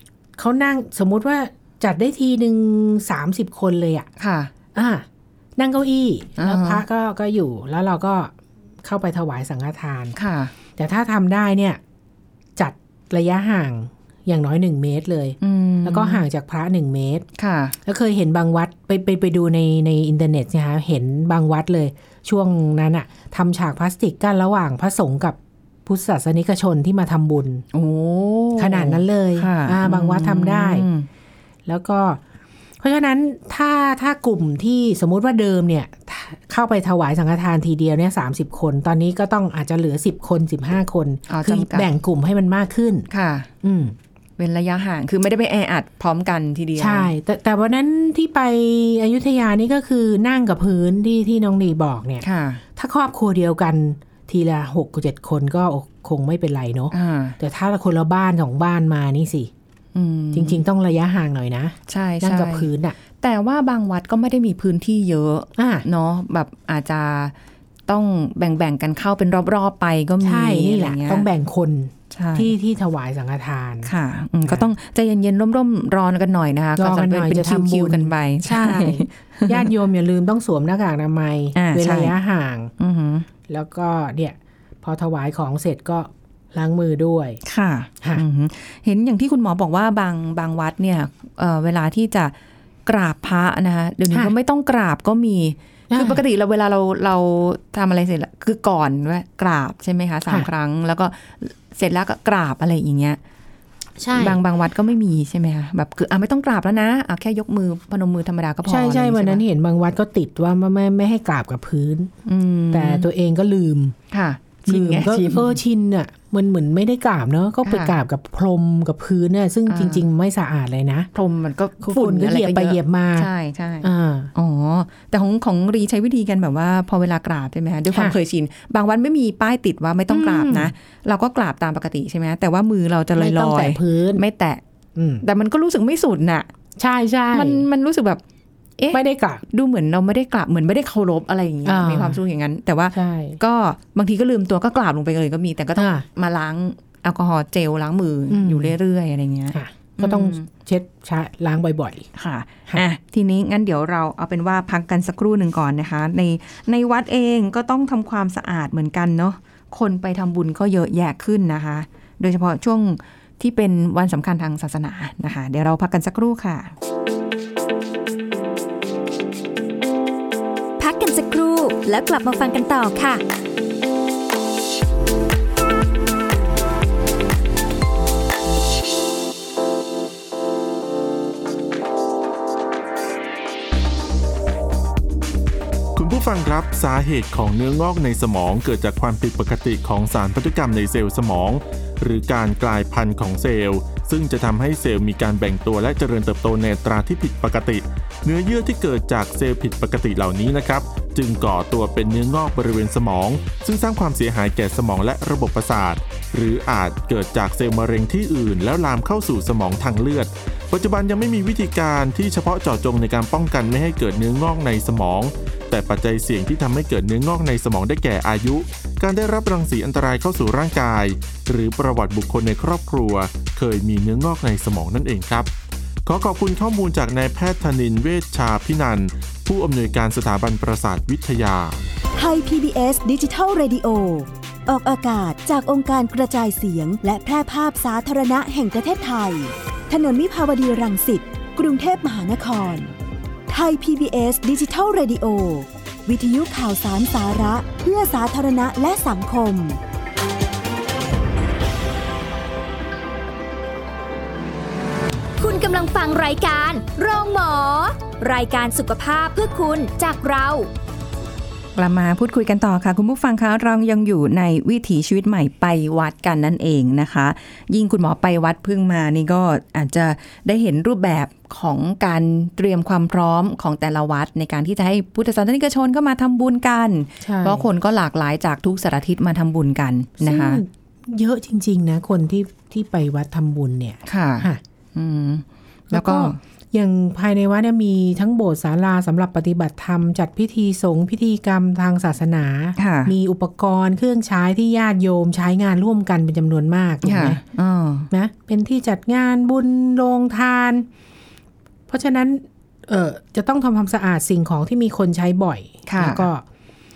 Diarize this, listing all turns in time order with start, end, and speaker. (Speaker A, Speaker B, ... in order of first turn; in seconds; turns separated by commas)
Speaker A: 0.3-4.1, Speaker B: 4.2-4.5, Speaker A: 4.7-5.0, Speaker A: 5.6-8.3, Speaker B: 6.4-6.8, Speaker A: 8.8-10.1, Speaker B: 10.1-10.5, Speaker A: 10.8-11.8, Speaker A: 12.6-17.2, Speaker B: 15.4-16.2, Speaker B: 17.4-17.8, Speaker A: 17.8-27.6, Speaker B: 27.7-31.1, Speaker A: 28.6-30.9, Speaker A: 31.6-32.2, Speaker A: 32.8-43.1, Speaker B: 41.3-41.9, Speaker B: 43.1-43.5, Speaker A: 43.6-43.9, Speaker B: 44.4-47.1, Speaker A: 46.8-52.2, Speaker B: 52.2-52.6, Speaker A: 52.8-59.5, Speaker B: 56.9-57.4, Speaker B: 59.9-60.6, Speaker A: 60.3-62.9, Speaker B: 61.9-67.3, Speaker A: 65.6-65.8, Speaker B: 67.9-71.2, Speaker A: 70.2-73.9, Speaker B: 72.1-72.5, Speaker B: 73.8-79.7, Speaker A: 76.8-82.7, Speaker B: 81.5-82.2, Speaker B: 82.8-83.3, Speaker A: 83.5-87.4, Speaker B: 87.4-92.3, Speaker B: 92.8-103.2, Speaker A: 95.9-96.2, Speaker A: 104.0-104.4, Speaker B: 104.1-109.4, Speaker A: 108.7-112.1, Speaker B: 112.2-113.1, Speaker A: 112.7-113.9, Speaker B: 114.1-115.6, Speaker A: 114.7-121.1, Speaker B: 117.6-117.9, Speaker B: 119.7-120.0, Speaker B: 121.1-134.6, Speaker A: 121.8-123.3, Speaker A: 123.8-124.3, Speaker A: 130.1-130.7, Speaker A: 133.2-134.2, Speaker A: 134.9-135.2, Speaker B: 135.2-136.5, Speaker A: 136.8-137.7, Speaker B: 137.3-138.2, Speaker B: 138.8-150.5, Speaker A: 138.9-139.4, Speaker A: 141.6-142.2, Speaker A: 142.9-143.4, Speaker A: 145.8-146.0, Speaker A: 148.3-148.7, Speaker A: 149.5-152.1, Speaker B: 152.1-166.7, Speaker C: 170.8-173.2, Speaker D: 185.9-225.5, Speaker D: 226.1-231.8, Speaker E: 232.2-242.9, Speaker E: 243.5-249.8, Speaker C: 255.4-260.7, Speaker B: 261.8-280.6, Speaker A: 277.2-277.6, Speaker A: 280.2-284.6, Speaker B: 284.1-286.4, Speaker A: 285.9-297.4, Speaker B: 292.8-293.1, Speaker B: 297.0-298.1, Speaker A: 298.1-300.9, Speaker A: 301.9-306.4, Speaker B: 305.9-306.3